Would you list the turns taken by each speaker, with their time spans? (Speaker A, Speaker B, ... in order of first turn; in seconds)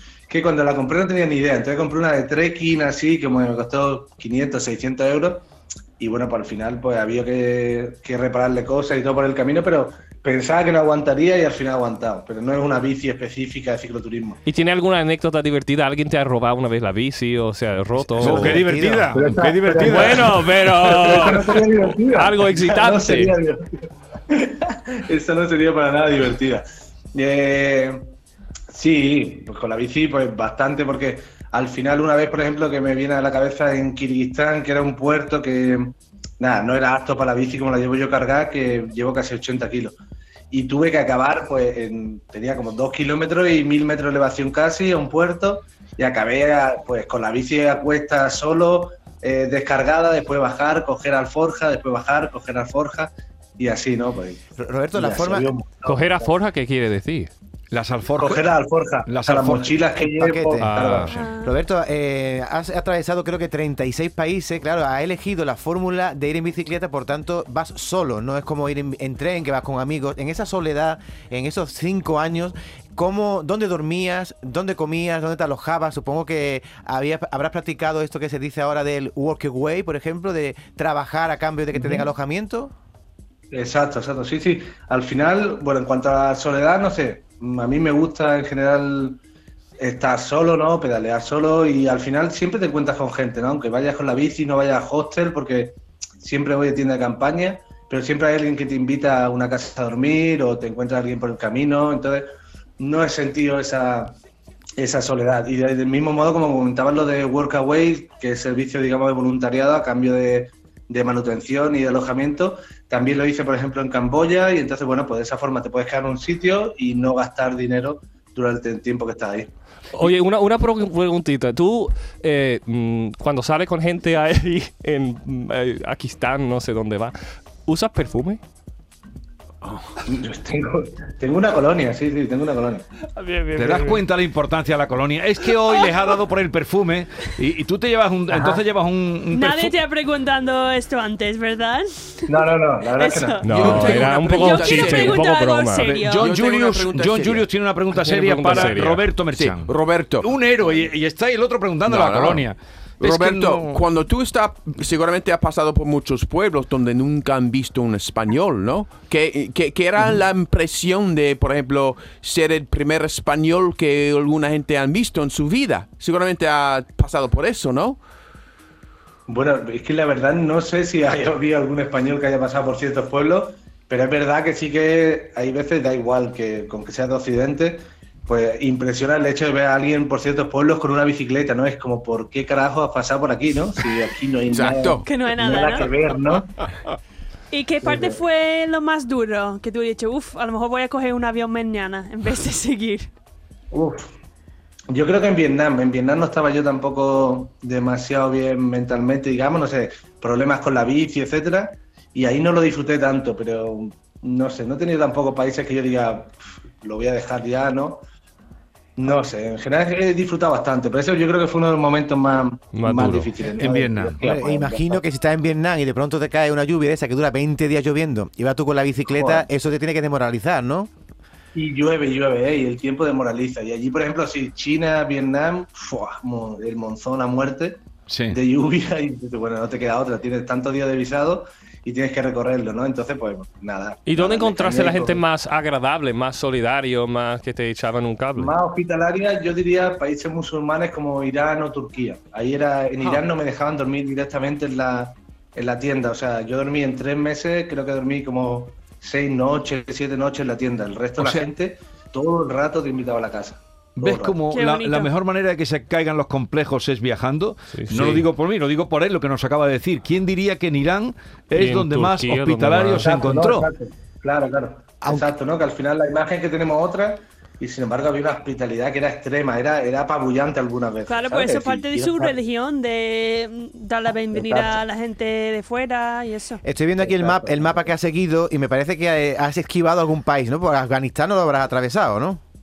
Speaker A: 0.3-5.5, 6.0-14.4, 19.1-23.6, 24.3-28.1, 28.7-39.9, 40.5-54.4, 54.9-56.3, 58.2-61.1, 81.7-82.1, 83.5-89.2, 89.8-102.2, 102.8-104.2, 104.8-119.5, 130.1-132.9, 138.3-138.6, 142.3-143.5, 169.3-186.5, 187.8-188.2, 193.7-194.1, 194.9-208.0, 209.0-215.0, 219.1-219.5, 221.5-235.2, 238.4-254.4, 263.0-272.4, 274.3-274.8, 277.0-277.9
Speaker B: 14.4-18.6, 19.8-23.4, 55.9-57.3, 60.6-61.1, 119.9-127.2, 127.7-128.4, 133.2-133.9, 143.4-145.9, 147.9-149.1, 212.7-213.3, 234.1-238.6, 257.7-258.2, 261.5-263.3
Speaker C: 18.0-19.2, 54.6-55.5, 60.1-60.7, 61.4-82.7, 214.2-220.9, 276.6-282.4
Speaker D: 18.2-20.5, 57.7-58.5, 59.0-59.9, 60.6-61.3, 133.6-139.7, 145.8-153.9, 213.6-214.2, 228.1-228.4, 251.2-251.5, 254.0-263.7
Speaker E: 61.1-61.5, 139.3-142.3, 142.9-146.3, 185.0-185.9, 187.5-193.1, 254.5-255.1, 271.1-276.6
Speaker F: 143.5-145.3, 146.1-147.5, 148.5-148.8, 149.3-150.8, 151.9-152.5, 153.0-168.0, 184.5-185.1